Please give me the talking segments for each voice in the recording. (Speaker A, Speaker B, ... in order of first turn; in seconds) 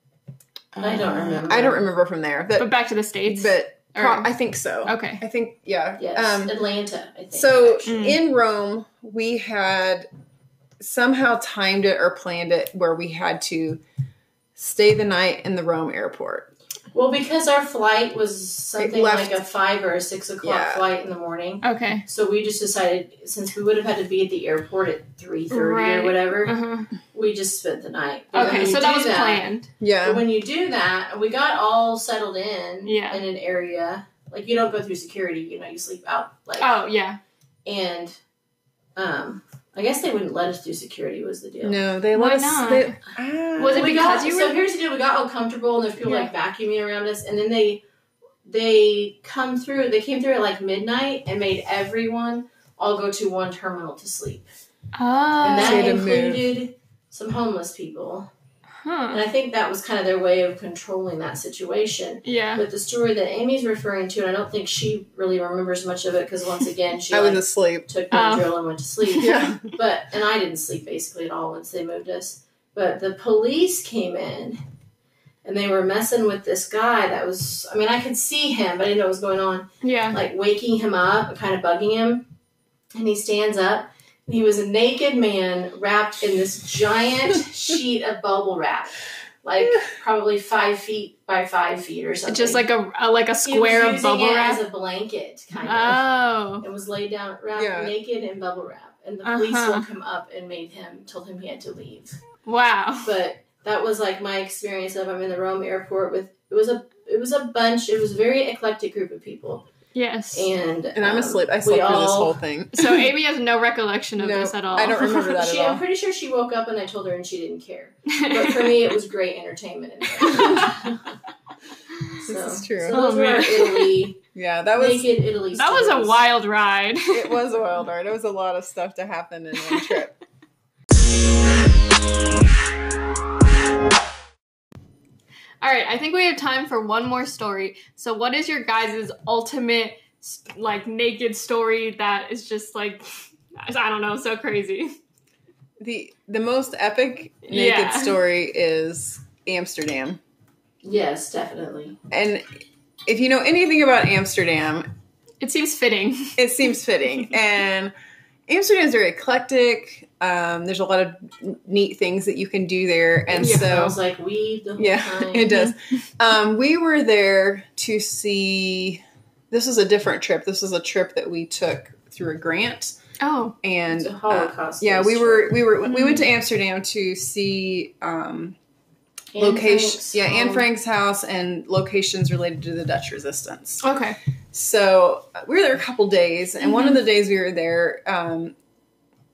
Speaker A: 0.8-2.7, 3.2-6.5, 7.3-10.1, 10.8-13.8, 14.6-16.5, 18.8-19.4, 20.4-20.8, 29.8-30.2, 41.6-44.0, 55.6-56.4, 67.1-67.9, 69.2-69.6, 97.5-97.9, 111.0-113.1, 114.2-115.8, 120.3-120.7, 122.2-123.0, 124.3-125.1, 127.1-130.1, 145.8-150.2, 152.1-152.5, 153.1-154.8, 156.4-157.9, 158.5-164.0, 164.8-172.9, 173.6-178.6, 179.4-183.8, 184.5-188.6
Speaker B: 0.8-1.9, 6.0-7.9, 16.9-26.5, 27.1-29.5, 30.0-36.7, 37.6-38.1, 39.0-41.8, 43.7-47.8, 48.5-54.5, 55.4-58.3, 59.1-74.6, 75.4-82.2, 82.9-92.6, 93.4-96.0, 96.6-102.2, 103.0-109.7, 110.3-112.4, 115.3-121.1, 122.2-124.2, 124.8-126.2, 150.8-152.0, 163.4-165.5, 173.9-175.6, 179.3-180.7
Speaker C: 2.6-4.3, 4.8-5.2, 7.8-8.2, 21.6-22.0, 25.5-26.9, 28.3-29.7, 32.8-33.2, 36.6-37.2, 42.1-43.0, 43.6-44.6, 46.0-46.3, 54.9-56.0, 58.8-59.2, 62.2-62.6, 68.1-68.5, 69.0-69.3, 79.8-80.2, 92.3-94.6, 95.6-96.6, 99.2-99.8, 102.4-103.1, 109.9-110.5, 112.7-115.3, 118.1-118.7, 120.2-120.7, 122.9-124.0, 125.5-127.4, 129.6-130.0, 135.6-143.0, 143.6-144.9, 147.5-148.2, 155.4-156.4, 163.4-163.8, 165.5-165.8, 173.2-173.6, 175.8-176.3, 183.8-184.2, 186.6-187.0